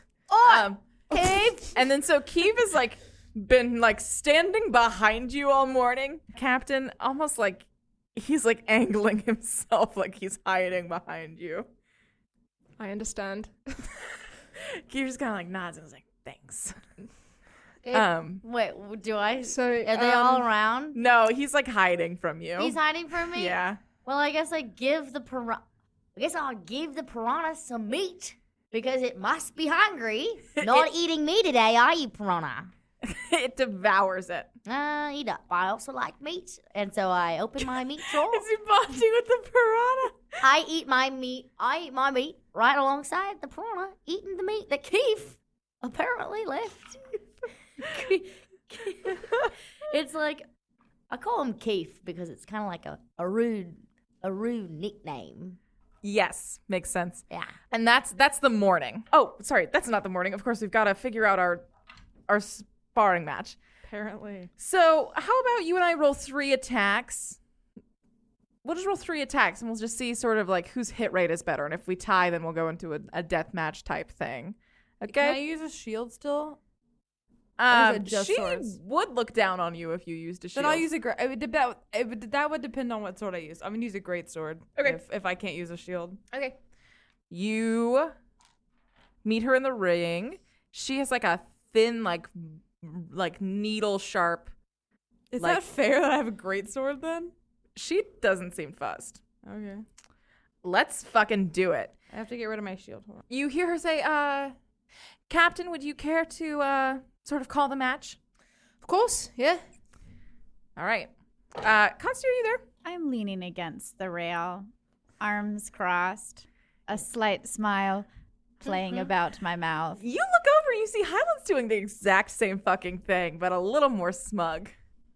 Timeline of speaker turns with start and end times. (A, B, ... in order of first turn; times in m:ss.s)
0:00.3-0:01.8 A
0:00.4-0:11.7 B
0:12.8-0:13.5 C
0:14.6-0:16.9 B
0:17.9-0:18.4 B
0:17.9-0:21.0 A
0:19.4-0:20.4 C
0:20.9-0:23.8 B
0:22.6-0:25.6 A
0:26.1-0:32.7 A
0:30.6-0:30.9 B
0:33.0-0:34.5 B
0:34.6-0:38.4 A
0:38.0-0:40.3 B
0:40.4-0:47.2 A
0:47.8-0:50.4 A
0:51.1-0:55.6 A
0:56.0-1:01.6 B
0:57.3-0:57.6 A
1:02.3-1:03.6 B
1:03.8-1:04.5 D
1:04.6-1:07.4 B
1:08.6-1:15.4 B
1:15.1-1:16.6 D
1:17.6-1:20.9 B
1:17.7-1:18.8 D
1:20.5-1:26.2 D
1:27.3-1:28.1 B
1:29.2-1:34.5 B
1:35.3-1:37.3 D
1:37.8-1:39.2 B
1:39.4-1:39.8 D
1:40.6-1:41.9 B
1:42.1-1:43.2 D
1:43.3-1:44.5 B
1:45.3-1:48.2 B
1:48.8-1:49.6 C
1:50.8-1:52.6 B
1:52.8-1:54.7 E
1:55.2-1:58.1 E
1:58.6-2:00.0 E
2:00.0-2:04.7 B